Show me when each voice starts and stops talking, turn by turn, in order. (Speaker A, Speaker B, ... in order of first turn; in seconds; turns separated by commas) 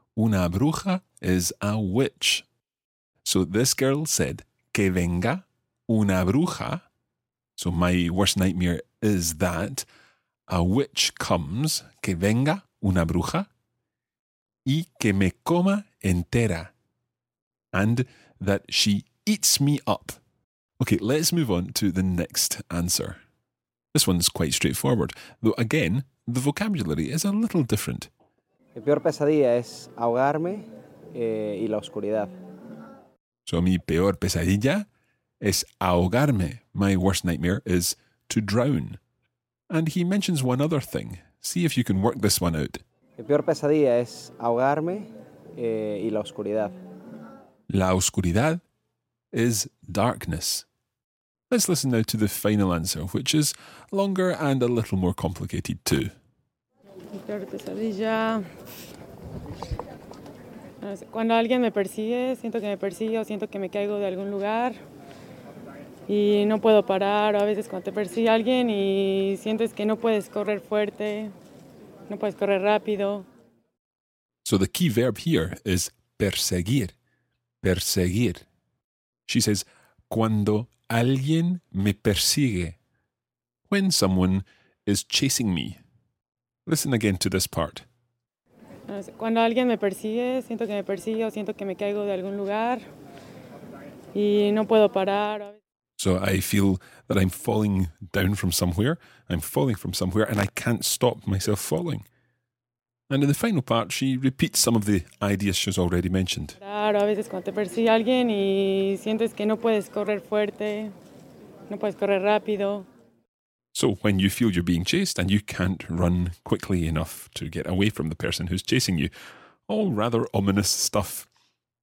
Speaker A: 0.1-2.4, Speaker A: 3.2-6.8, Speaker A: 7.6-9.8, Speaker A: 10.5-13.5, Speaker A: 14.7-16.7, Speaker A: 17.7-20.2, Speaker A: 20.8-23.2, Speaker A: 23.9-28.1, Speaker B: 28.7-32.3, Speaker A: 33.5-34.9, Speaker A: 35.4-39.0, Speaker A: 39.7-42.8, Speaker B: 43.2-46.8, Speaker A: 47.7-48.6, Speaker A: 49.3-50.6, Speaker A: 51.5-56.1, Speaker C: 57.2-58.4, Speaker C: 60.8-64.8, Speaker C: 66.1-71.3, Speaker C: 72.1-73.2, Speaker A: 74.4-76.9, Speaker A: 77.6-78.4, Speaker A: 79.3-82.8, Speaker A: 83.7-85.8, Speaker A: 86.7-87.8, Speaker C: 88.9-92.8, Speaker C: 94.1-95.5, Speaker A: 96.0-102.0, Speaker A: 103.1-106.6, Speaker C: 106.6-110.9, Speaker C: 111.7-112.8, Speaker A: 113.7-119.1, Speaker A: 119.7-121.3